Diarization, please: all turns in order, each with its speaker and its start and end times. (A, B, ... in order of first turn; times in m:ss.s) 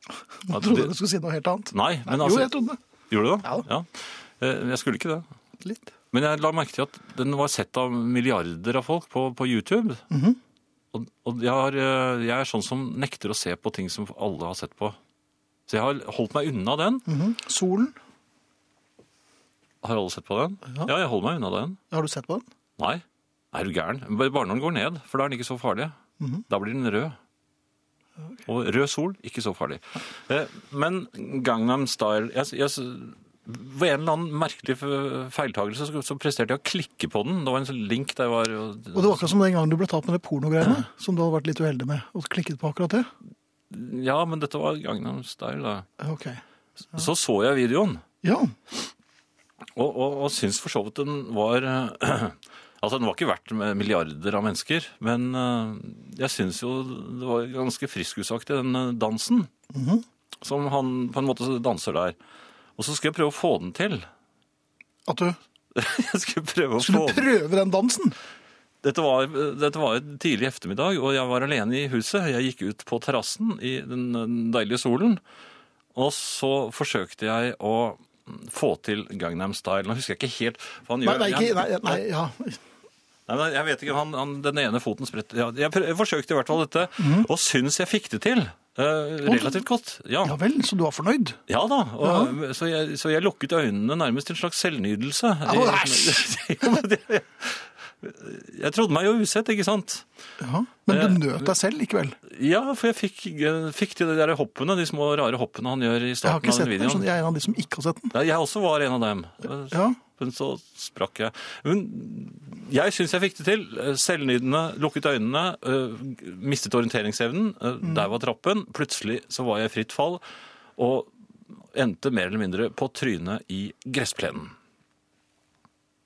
0:00.5-0:02.8 A
0:00.5-0:00.9 B
0:01.7-0:02.5 B
0:03.1-0:05.3 B
0:06.1-0:10.0 B
0:10.1-0:10.4 A
0:10.9-0:15.0 B
0:15.7-0:17.1 B
0:17.1-0:18.0 A
0:19.8-0:21.8 B
0:21.9-0:22.4 A
0:22.8-0:26.0 B
0:26.5-0:27.2 B
0:28.5-0:39.3 B
0:38.9-0:43.1 A
0:43.7-0:45.9 B
0:46.0-0:46.4 A
0:46.9-0:48.0 B
0:48.2-0:48.6 A
0:49.7-0:59.5 B
0:59.7-1:00.0 A
1:00.4-1:02.2 B
1:02.8-1:04.1 B
1:05.1-1:05.4 A
1:05.7-1:07.3 B
1:06.8-1:08.2 A
1:08.8-1:15.2 B
1:16.0-1:22.0 B
1:21.0-1:22.6 A
1:23.3-1:30.4 B
1:27.0-1:27.3 A
1:29.2-1:29.6 A
1:30.2-1:31.4 A
1:31.5-1:40.0 B
1:32.0-1:32.4 A
1:35.5-1:36.3 A
1:40.4-1:42.2 A
1:40.9-1:41.5 B
1:42.3-1:47.1 B
1:46.2-1:48.1 A
1:48.1-2:00.2 B
1:49.7-1:50.0 A
2:00.8-2:01.1 B
2:01.7-2:04.6 B